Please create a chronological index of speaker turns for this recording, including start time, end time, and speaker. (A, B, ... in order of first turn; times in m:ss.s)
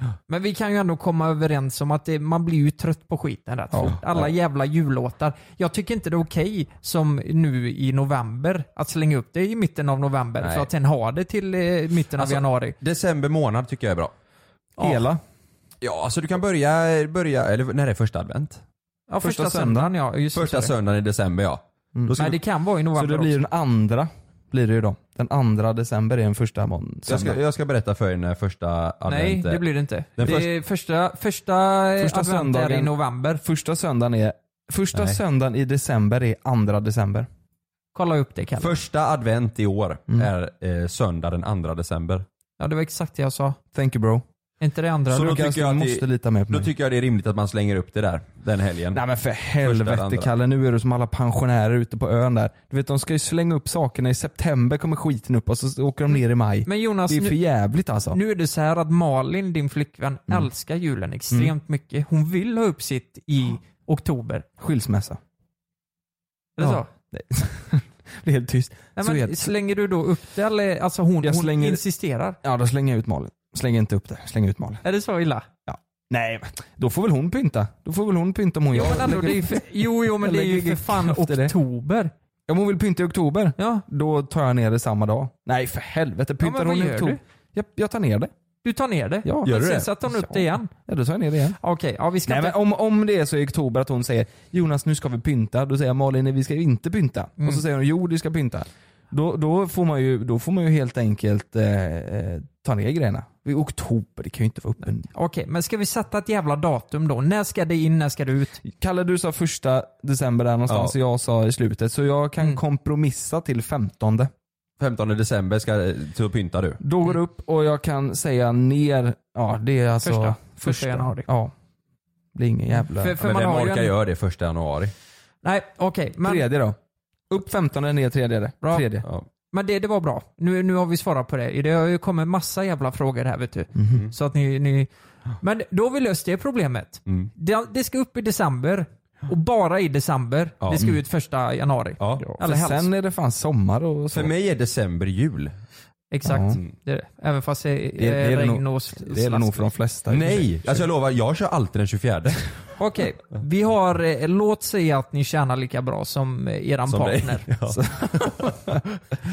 0:00.3-0:12.8 A
0:03.7-0:04.0 B
0:03.9-0:04.2 C
0:10.4-0:10.7 C
0:12.2-0:14.1 C
0:14.8-0:15.2 B
0:15.8-0:18.6 C
0:19.1-0:20.7 A
0:19.2-0:19.9 B
0:20.3-0:22.3 C
0:22.0-0:22.4 B
0:22.2-0:23.4 A
0:23.0-0:27.4 B
0:27.1-0:29.6 C
0:29.1-0:33.4 A
0:30.2-0:30.5 C
0:32.0-0:37.3 B
0:34.9-0:35.2 C
0:38.0-0:38.8 A
0:38.6-0:42.2 C
0:42.6-0:43.6 A
0:43.7-0:44.2 B
0:44.6-0:45.4 A
0:45.1-0:46.7 B
0:45.1-0:49.0 C
0:48.9-0:58.2 B
0:49.6-0:50.3 C
0:56.7-0:57.4 A
0:58.1-1:04.4 A
1:04.6-1:05.2 B
1:06.6-1:06.9 A
1:06.6-1:09.5 B
1:09.0-1:12.4 A
1:11.2-1:11.8 B
1:12.4-1:14.8 B
1:14.8-1:15.5 A
1:15.7-1:21.6 B
1:18.7-1:22.1 A
1:22.5-1:28.3 B
1:23.6-1:23.8 A
1:26.4-1:27.2 A
1:28.6-1:30.7 A
1:29.2-1:31.6 B
1:31.6-1:32.6 A
1:32.3-1:45.1 B
1:45.1-1:48.6 A
1:48.6-1:54.3 B
1:50.7-1:51.0 C
1:54.8-1:56.8 C
1:56.8-2:01.5 B
2:00.0-2:01.3 A
2:02.4-2:03.2 B
2:03.0-2:03.9 A
2:03.2-2:04.9 C
2:05.4-2:06.4 A
2:06.2-2:06.8 B
2:07.3-2:09.1 B
2:09.5-2:14.9 A
2:13.8-2:14.1 B
2:15.4-2:22.9 A
2:20.6-2:21.0 C
2:22.0-2:22.3 C
2:22.2-2:24.3 B
2:24.1-2:25.6 C
2:26.1-2:29.6 A
2:26.2-2:26.6 B
2:28.0-2:30.9 B
2:30.1-2:32.5 C
2:32.8-2:37.5 A
2:36.9-2:38.6 C
2:37.7-2:38.8 B